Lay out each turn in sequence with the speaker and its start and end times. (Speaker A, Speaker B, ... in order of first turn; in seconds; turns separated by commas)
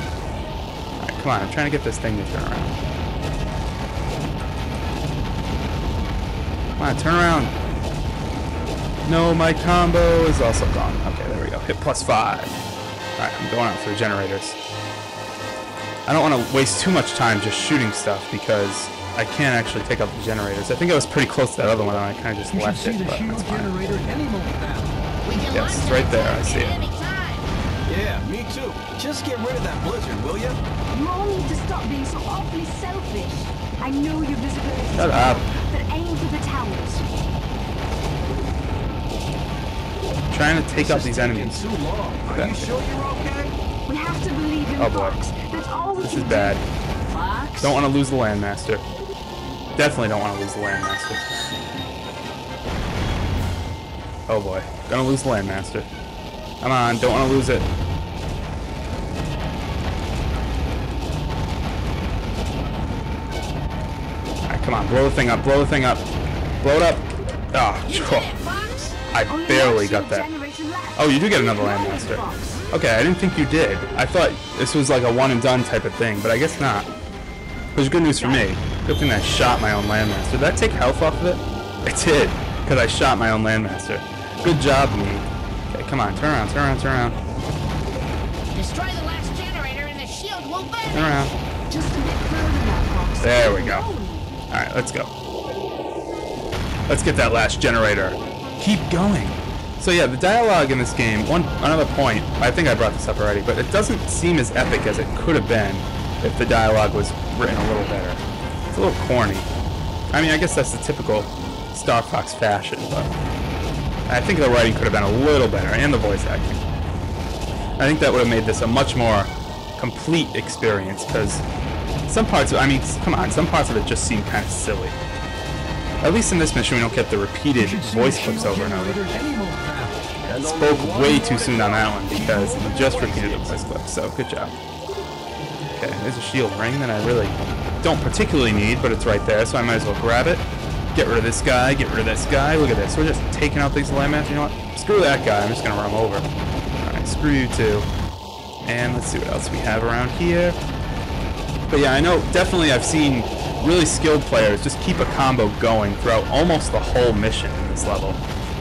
Speaker A: 1.0-2.8, Speaker A: 6.8-7.5, Speaker A: 9.1-12.6, Speaker A: 13.2-14.6, Speaker A: 16.1-23.7, Speaker B: 22.5-24.9, Speaker C: 25.2-27.5, Speaker A: 25.5-26.8, Speaker D: 27.9-30.6, Speaker E: 30.9-37.0, Speaker A: 34.9-35.5, Speaker A: 40.3-41.6, Speaker D: 40.7-43.5, Speaker A: 42.3-42.7, Speaker E: 43.9-47.8, Speaker A: 44.8-45.2, Speaker A: 46.0-46.6, Speaker A: 47.5-48.8, Speaker A: 49.8-51.2, Speaker A: 54.3-55.9, Speaker A: 56.6-57.7, Speaker A: 64.4-66.1, Speaker A: 66.6-68.3, Speaker C: 67.8-69.0, Speaker A: 69.1-70.3, Speaker E: 69.3-72.6, Speaker A: 70.9-76.9, Speaker A: 77.7-87.2, Speaker C: 88.5-91.3, Speaker A: 90.9-91.3, Speaker E: 91.7-94.3, Speaker A: 93.2-93.9, Speaker A: 94.5-95.1, Speaker A: 96.9-108.2, Speaker A: 108.7-109.5, Speaker A: 110.1-113.1, Speaker A: 114.1-116.6, Speaker A: 117.8-121.4, Speaker A: 122.1-125.0, Speaker A: 126.0-129.0, Speaker B: 127.5-130.1, Speaker D: 130.2-133.6, Speaker A: 130.4-134.5, Speaker A: 135.7-146.3, Speaker A: 146.8-147.9, Speaker A: 148.6-150.6, Speaker A: 151.7-158.2